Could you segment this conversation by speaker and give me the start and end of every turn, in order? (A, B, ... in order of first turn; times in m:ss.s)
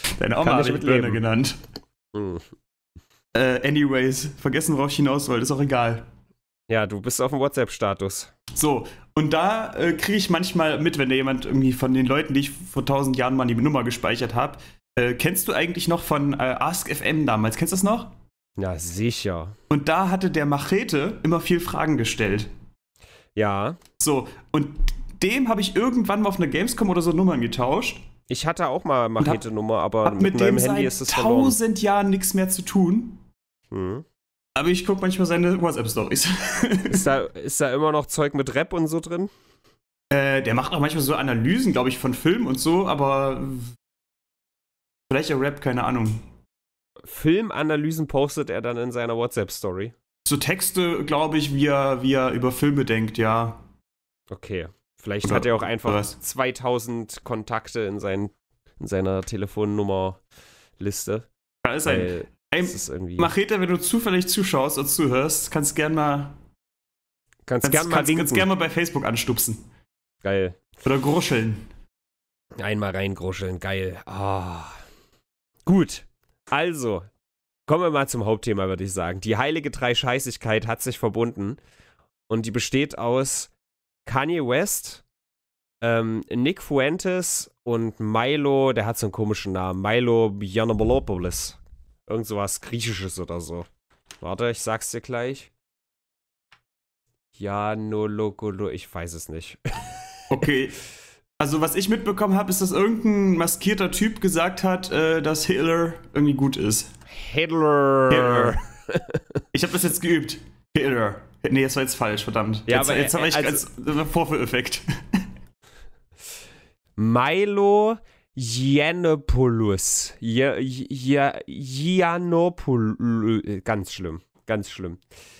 0:00.2-0:01.6 A
0:00.4-0:01.2 B
0:02.1-0:02.4 B
0:03.3-0:06.1 A
0:06.7-0:08.3 B
0:08.5-0:18.1 A
0:18.6-0:19.6 B
0:19.7-0:22.5 A
0:23.4-0:23.8 B
0:24.0-0:28.0 A
0:28.3-0:31.6 B
0:30.0-0:33.2 A
0:33.7-0:34.0 B
0:34.6-0:37.1 A
0:36.9-0:39.3 B
0:40.1-0:43.7 A
0:45.1-0:46.3 A
0:47.0-0:49.9 B
0:50.2-0:53.6 A
0:54.3-1:00.2 B
0:55.2-0:56.1 A
1:00.8-1:01.3 B
1:01.6-1:06.4 A
1:01.8-1:03.3 B
1:07.4-1:08.5 B
1:07.6-1:09.6 A
1:10.2-1:10.6 B
1:10.8-1:11.7 A
1:12.6-1:14.8 B
1:15.6-1:17.1 B
1:17.7-1:21.6 B
1:22.3-1:23.5 B
1:24.0-1:25.0 B
1:25.8-1:33.7 B
1:34.2-1:35.5 B
1:37.4-1:40.0 B
1:40.3-1:40.8 A
1:41.4-1:46.9 A
1:47.1-1:49.4 B
1:48.1-1:48.6 A
1:49.5-1:55.2 A
1:52.7-1:53.6 B
1:57.0-2:05.0 B